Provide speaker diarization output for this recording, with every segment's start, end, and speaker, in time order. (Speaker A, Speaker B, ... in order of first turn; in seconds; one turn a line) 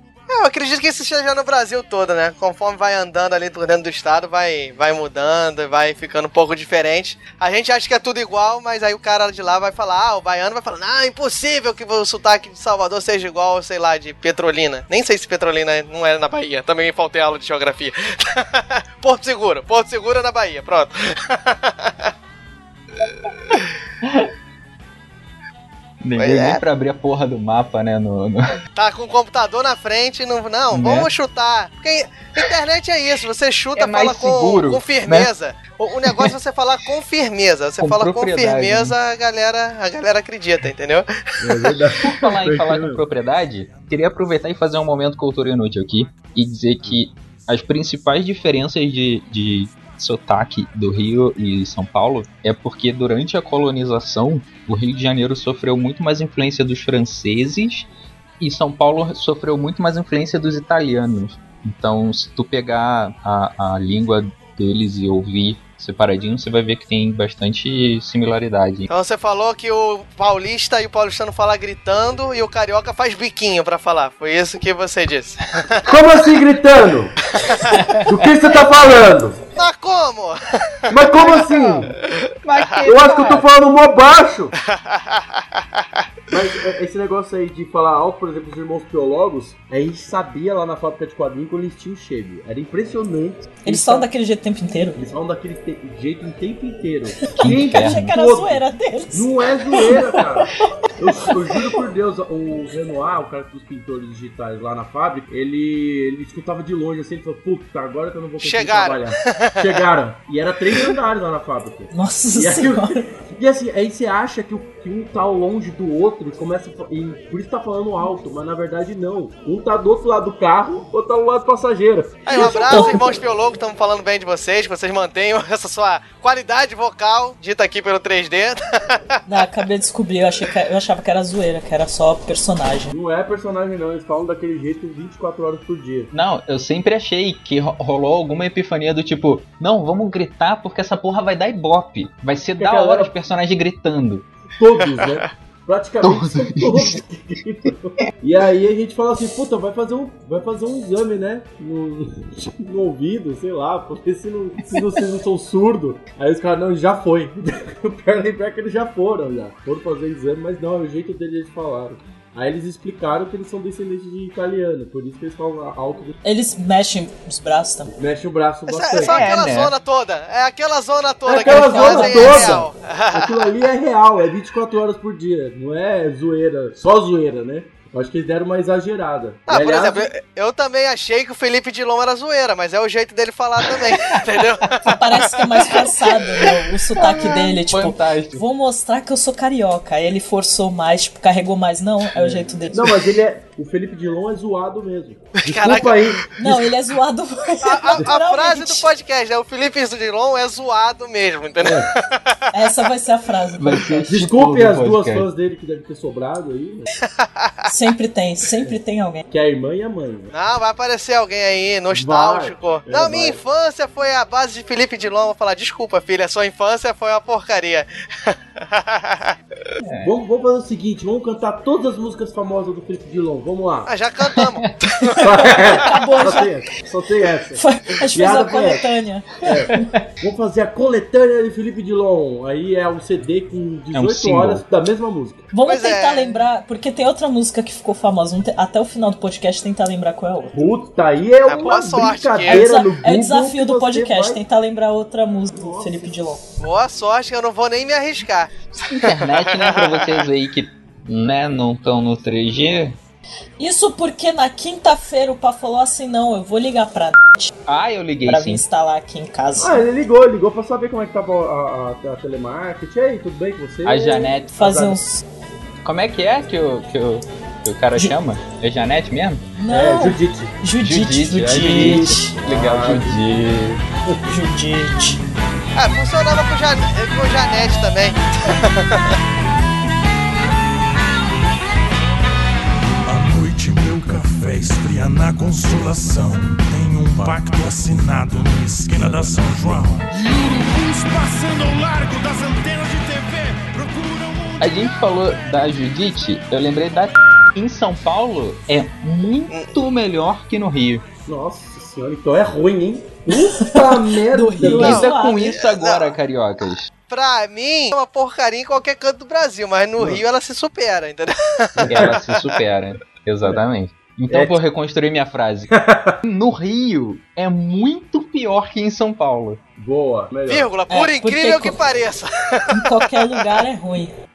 Speaker A: 0.3-22.1
Speaker B: 24.0-24.3
Speaker B: 26.0-28.6
Speaker A: 26.2-26.6
Speaker A: 28.8-41.7
Speaker B: 30.7-31.1
Speaker B: 33.8-35.3
Speaker B: 36.1-36.3
Speaker B: 37.8-39.0
Speaker C: 41.4-43.0
Speaker B: 42.0-57.9
Speaker B: 58.4-68.9
Speaker A: 68.9-76.0
Speaker C: 75.8-77.2
Speaker A: 77.3-77.8
Speaker B: 77.8-78.1
Speaker C: 78.0-79.4
Speaker A: 79.5-81.9
Speaker C: 80.9-81.9
Speaker B: 82.4-83.5
Speaker C: 82.8-84.5
Speaker A: 84.7-85.8
Speaker C: 86.3-94.1
Speaker D: 93.6-95.0
Speaker C: 94.9-123.0
Speaker D: 97.2-100.5
Speaker B: 97.4-98.1
Speaker A: 108.4-109.7
Speaker D: 111.9-113.1
Speaker A: 122.2-129.2
Speaker D: 122.3-123.0
Speaker D: 129.2-132.9
Speaker C: 132.9-136.1
Speaker B: 136.1-144.3
Speaker C: 142.6-143.1
Speaker C: 144.6-166.1
Speaker B: 146.0-147.0
Speaker D: 166.2-167.9
Speaker C: 167.9-169.3
Speaker A: 168.7-173.4
Speaker B: 169.0-169.7
Speaker C: 171.2-180.1
Speaker D: 171.4-172.6
Speaker A: 179.5-186.5
Speaker D: 184.8-193.1
Speaker B: 186.9-188.4
Speaker C: 192.1-196.6
Speaker A: 195.4-196.1
Speaker D: 196.4-198.9
Speaker A: 197.6-202.4
Speaker C: 201.6-201.9
Speaker D: 202.5-203.9
Speaker B: 203.6-205.3
Speaker C: 203.9-206.9
Speaker A: 207.2-207.7
Speaker D: 207.7-209.2
Speaker C: 209.3-210.3
Speaker A: 210.3-219.3
Speaker C: 211.9-213.4
Speaker B: 219.8-220.1
Speaker C: 220.0-223.9
Speaker A: 223.8-225.7
Speaker C: 225.2-235.5
Speaker D: 225.4-226.5
Speaker D: 227.6-229.9
Speaker B: 233.9-234.6
Speaker D: 235.5-240.7
Speaker A: 235.6-236.4
Speaker C: 240.5-244.4
Speaker A: 241.5-242.6
Speaker D: 242.5-246.4
Speaker C: 245.5-246.1
Speaker A: 246.6-250.1
Speaker B: 248.9-252.9
Speaker D: 253.6-257.5
Speaker B: 257.7-258.6
Speaker D: 258.2-259.9
Speaker C: 259.6-264.9
Speaker B: 263.8-264.9
Speaker D: 264.5-265.2
Speaker B: 265.8-269.4
Speaker D: 269.6-272.3
Speaker C: 269.7-270.5
Speaker B: 270.8-273.8
Speaker C: 271.5-273.4
Speaker D: 274.2-275.2
Speaker A: 275.7-279.2
Speaker E: 283.1-295.0
Speaker B: 294.6-301.0
Speaker A: 299.5-299.7
Speaker C: 301.3-305.0
Speaker D: 303.5-305.6
Speaker B: 304.6-306.9
Speaker A: 304.8-306.1
Speaker A: 307.1-312.6
Speaker C: 310.0-310.2
Speaker C: 311.8-312.2
Speaker B: 311.9-319.6
Speaker C: 314.3-314.6
Speaker C: 315.7-316.2
Speaker C: 319.8-320.7
Speaker A: 320.5-323.4
Speaker D: 320.9-321.8
Speaker D: 322.7-324.1